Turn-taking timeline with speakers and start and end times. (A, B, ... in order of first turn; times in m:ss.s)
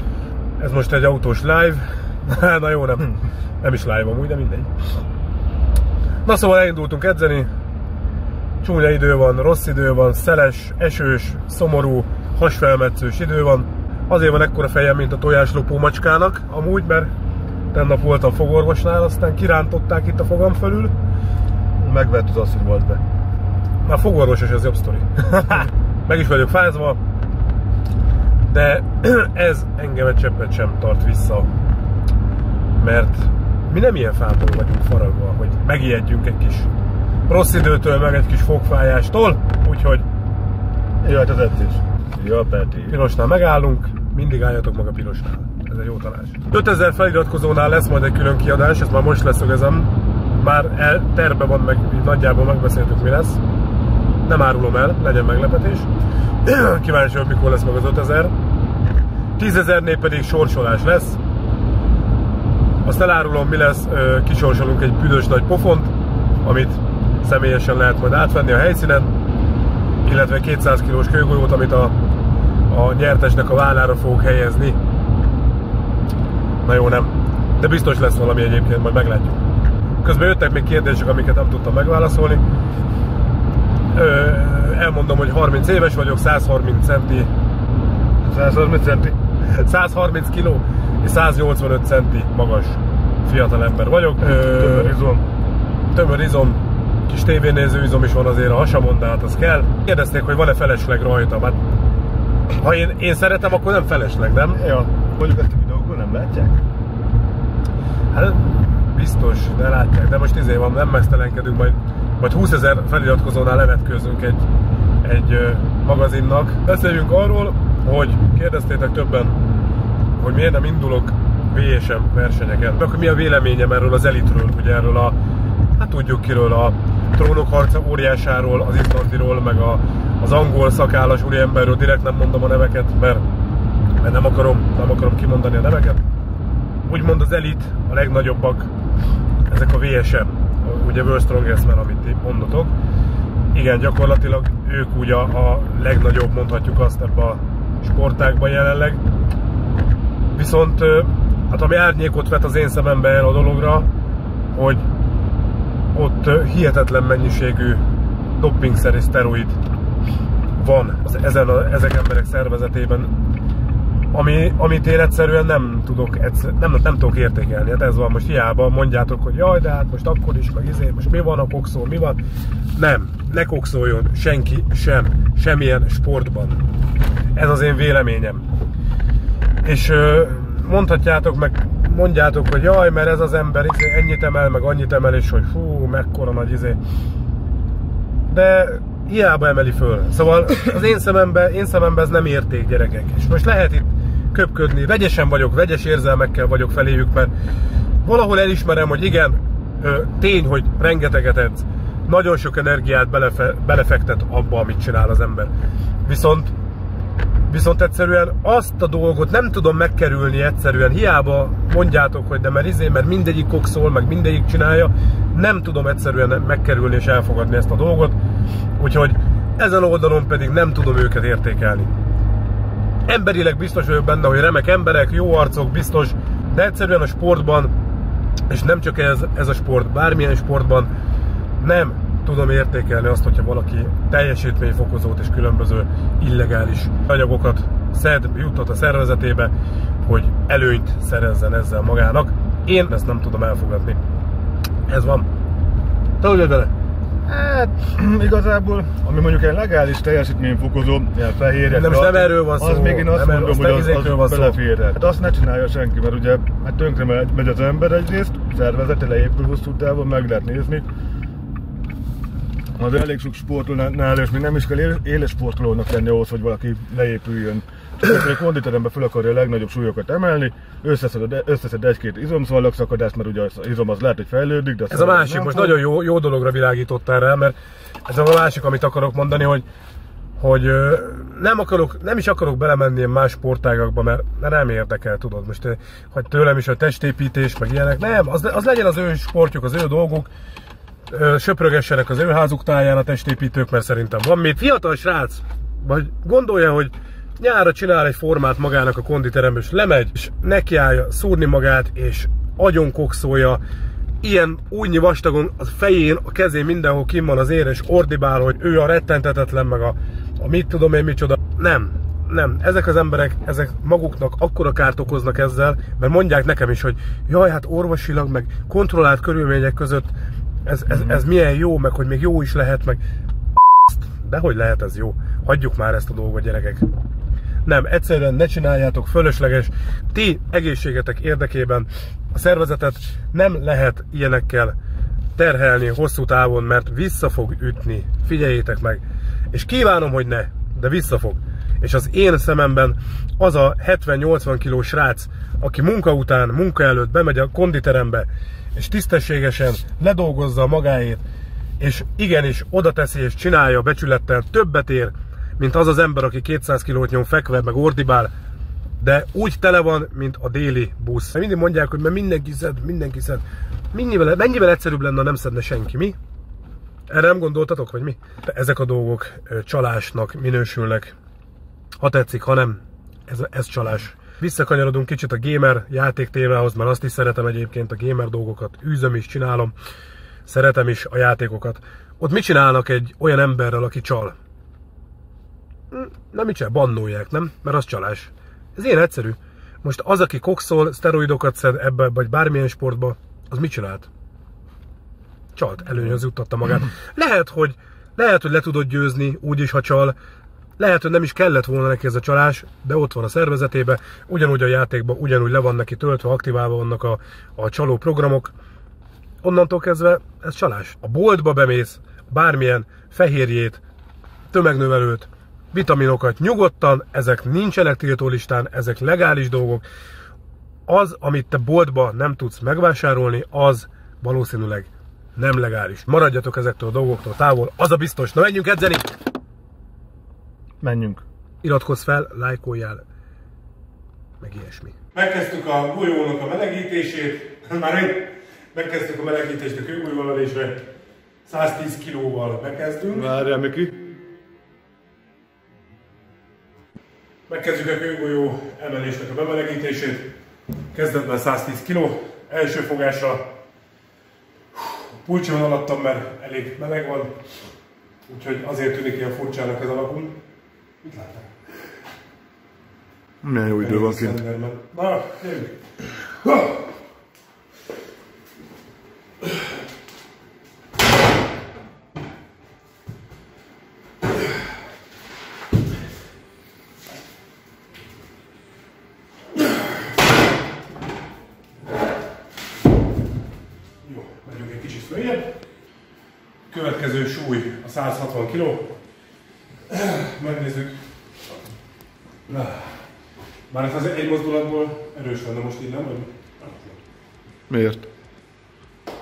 0:00.6-0:04.7 A
0:06.2-0:07.5 A
0:08.6-0:17.1 A
0:17.7-0:20.9 A
0:21.8-0:23.0 B
0:23.8-0:27.0 A
0:28.5-0:31.5 A
0:32.8-0:36.7 A
0:37.3-0:40.0 A
0:41.0-0:43.0 B
0:42.9-0:53.4 A
0:54.2-0:55.9 A
0:56.4-0:58.3 A
0:59.4-1:01.2 A
1:02.8-1:09.1 A
1:10.0-1:12.0 A
1:12.7-1:14.8 A
1:16.6-1:19.4 A
1:20.0-1:22.4 A
1:23.9-1:27.3 A
1:28.2-1:29.2 B
1:29.5-1:34.9 A
1:34.4-1:35.2 B
1:35.9-1:41.6 A
1:42.6-1:44.6 A
1:44.5-1:46.6 B
1:48.1-1:54.4 A
1:55.0-1:59.4 A
2:00.2-2:05.2 A
2:05.8-2:13.3 A
2:14.0-2:16.0 A
2:16.9-2:18.7 A
2:19.5-2:22.7 A
2:23.5-2:29.0 A
2:30.3-2:33.9 A
2:34.5-2:34.8 A
2:35.9-2:37.8 A
2:38.4-2:39.6 A
2:40.6-2:43.1 A
2:44.1-2:52.2 A
2:52.8-2:56.6 A
2:57.3-2:58.5 A
2:59.6-3:06.8 A
3:08.3-3:17.3 A
3:18.0-3:25.5 A
3:26.0-3:26.5 A
3:27.5-3:38.2 A
3:38.8-3:41.9 A
3:43.1-3:47.7 A
3:48.5-3:50.9 A
3:51.6-3:59.5 A
4:00.0-4:04.0 A
4:04.9-4:05.3 A
4:06.2-4:06.7 A
4:07.3-4:20.8 B
4:11.7-4:14.6 A
4:22.8-4:35.8 B
4:34.9-4:37.6 A
4:38.1-4:39.6 A
4:40.4-4:50.3 A
4:51.1-5:03.6 A
5:04.2-5:20.1 A
5:20.6-5:23.0 A
5:23.7-5:26.9 A
5:27.6-5:34.8 A
5:35.4-5:51.2 A
5:51.8-5:58.3 A
5:59.0-6:06.2 A
6:07.1-6:11.1 A
6:12.0-6:19.7 A
6:20.5-6:24.4 A
6:25.9-6:34.1 A
6:35.6-6:40.2 A
6:40.8-6:48.6 A
6:49.4-6:53.8 A
6:54.5-6:59.8 A
7:00.9-7:09.1 A
7:10.8-7:11.2 B
7:11.6-7:13.0 A
7:14.4-7:20.8 A
7:21.4-7:23.3 A
7:23.2-7:23.9 B
7:27.5-7:30.3 A
7:30.9-7:33.4 A
7:35.2-7:37.3 A
7:38.3-7:40.4 A
7:41.0-7:41.5 A
7:43.4-7:44.4 B
7:43.8-7:45.8 A
8:04.0-8:05.5 A
8:06.7-8:08.9 A
8:09.9-8:11.0 A
8:12.5-8:12.9 A
8:13.7-8:17.0 A
8:17.7-8:18.0 B